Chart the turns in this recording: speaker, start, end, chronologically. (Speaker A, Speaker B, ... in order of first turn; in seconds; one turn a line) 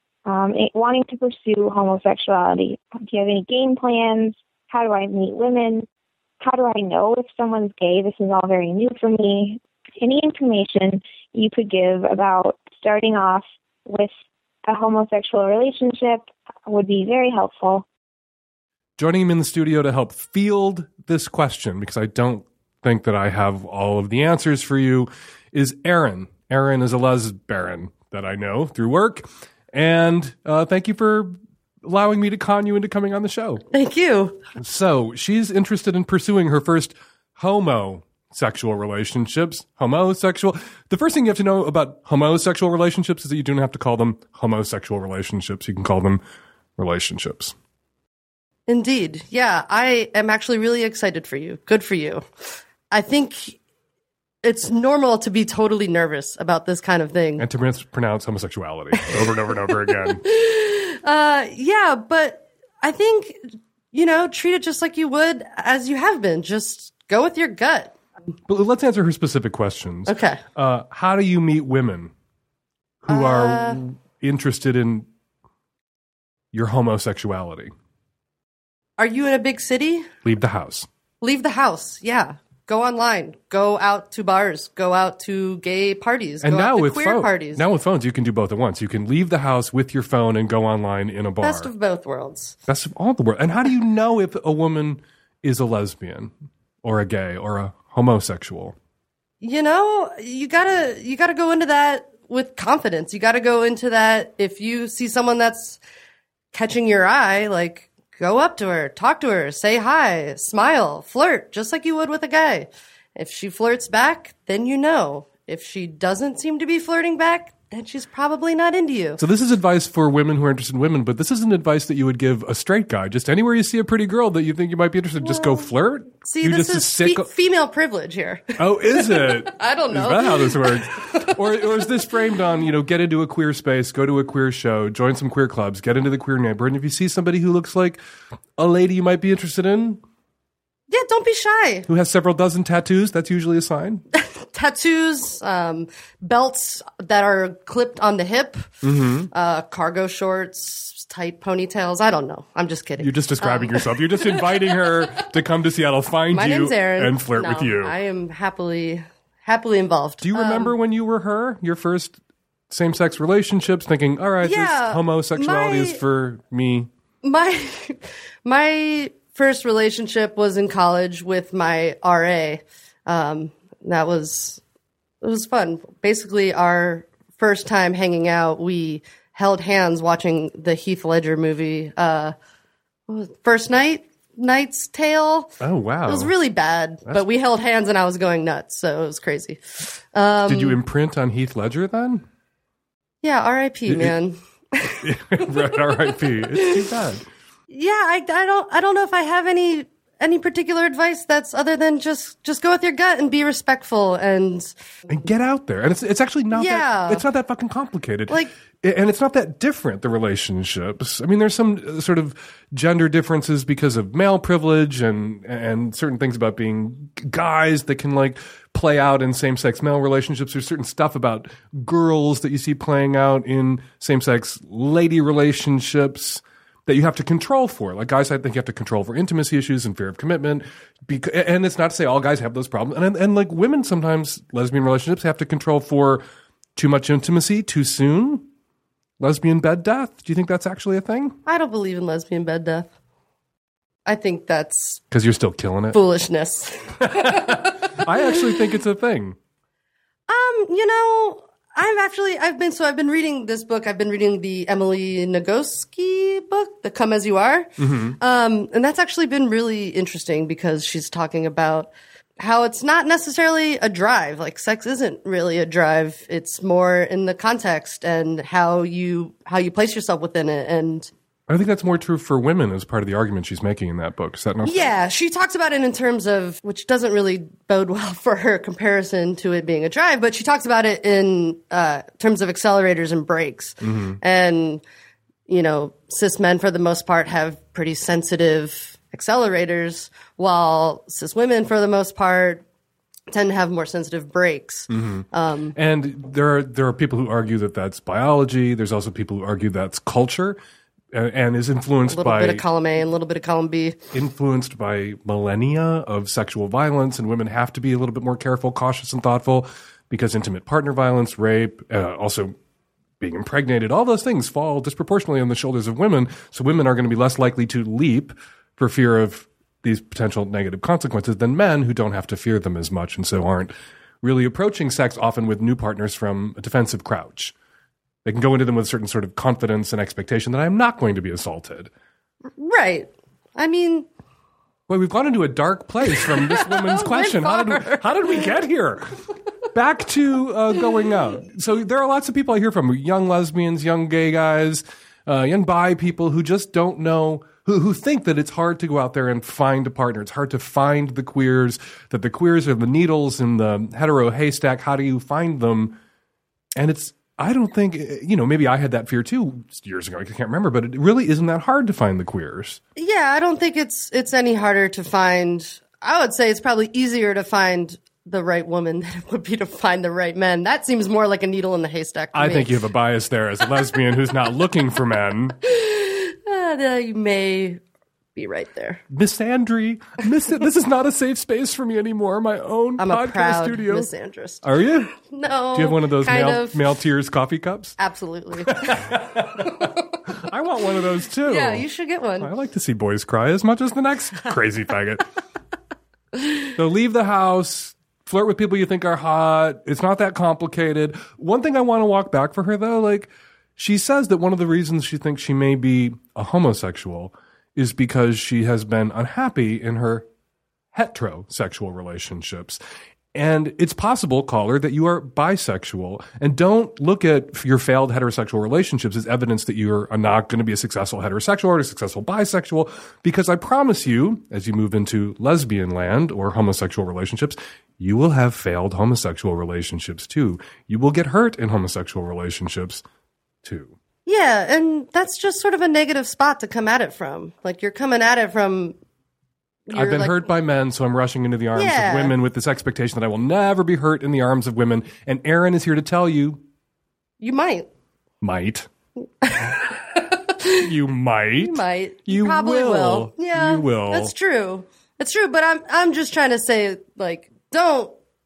Speaker A: 0.3-5.8
Speaker A: 6.4-14.1
Speaker A: 14.7-17.8
Speaker B: 19.0-33.6
Speaker C: 33.7-34.4
Speaker B: 34.5-46.2
Speaker B: 46.8-47.5
Speaker C: 48.7-53.6
Speaker C: 54.4-57.4
Speaker B: 57.4-60.2
Speaker C: 60.1-67.9
Speaker B: 68.5-72.1
Speaker C: 70.1-70.4
Speaker B: 73.0-75.1
Speaker C: 73.1-73.8
Speaker B: 76.5-77.7
Speaker C: 79.0-80.1
Speaker B: 80.2-80.9
Speaker C: 81.2-87.6
Speaker B: 86.4-91.7
Speaker C: 91.4-92.6
Speaker B: 92.7-98.7
Speaker C: 99.4-105.8
Speaker C: 106.5-119.2
Speaker B: 119.2-127.3
Speaker C: 125.2-125.7
Speaker C: 126.2-131.9
Speaker B: 128.6-138.0
Speaker B: 138.6-140.0
Speaker C: 140.9-141.9
Speaker B: 141.9-144.0
Speaker C: 144.2-148.8
Speaker B: 148.8-149.3
Speaker C: 149.3-155.2
Speaker B: 153.0-157.9
Speaker C: 156.3-160.7
Speaker B: 160.2-162.2
Speaker B: 162.7-166.9
Speaker C: 164.4-166.0
Speaker C: 167.2-174.6
Speaker C: 175.2-182.3
Speaker C: 183.1-190.8
Speaker B: 185.6-186.3
Speaker B: 190.5-192.2
Speaker C: 193.2-195.0
Speaker B: 193.9-194.1
Speaker B: 195.0-197.3
Speaker C: 196.1-196.4
Speaker C: 197.7-204.7
Speaker B: 205.1-236.2
Speaker C: 206.5-207.2
Speaker B: 236.8-238.5
Speaker B: 239.2-241.4
Speaker C: 241.4-242.9
Speaker C: 244.1-245.0
Speaker B: 245.1-246.0
Speaker C: 245.9-248.5
Speaker B: 247.1-249.4
Speaker C: 250.3-271.1
Speaker B: 257.8-258.2
Speaker B: 271.5-274.9
Speaker C: 274.6-284.8
Speaker B: 283.8-284.2
Speaker C: 285.5-292.6
Speaker C: 293.3-295.7
Speaker B: 294.9-300.6
Speaker B: 301.1-302.6
Speaker C: 302.0-304.0
Speaker B: 304.1-312.5
Speaker B: 313.2-327.5
Speaker B: 328.2-331.9
Speaker C: 332.6-334.1
Speaker B: 334.9-339.2
Speaker C: 336.2-338.1
Speaker B: 339.7-356.0
Speaker B: 356.8-362.8
Speaker C: 362.9-372.8
Speaker B: 372.3-375.5
Speaker C: 375.6-377.8
Speaker C: 378.4-379.0
Speaker B: 379.1-384.1
Speaker C: 383.0-386.8
Speaker B: 384.6-385.1
Speaker B: 385.7-388.0
Speaker C: 388.0-389.9
Speaker B: 388.6-391.9
Speaker C: 391.4-392.5
Speaker B: 392.4-395.3
Speaker B: 396.7-410.3
Speaker B: 410.9-412.8
Speaker B: 413.3-433.0
Speaker B: 433.6-433.9
Speaker C: 434.2-438.9
Speaker C: 439.9-440.4
Speaker B: 439.9-446.6
Speaker C: 441.7-442.4
Speaker C: 447.4-447.9
Speaker B: 448.4-448.9
Speaker C: 449.4-449.9
Speaker B: 450.7-454.3
Speaker C: 451.6-458.1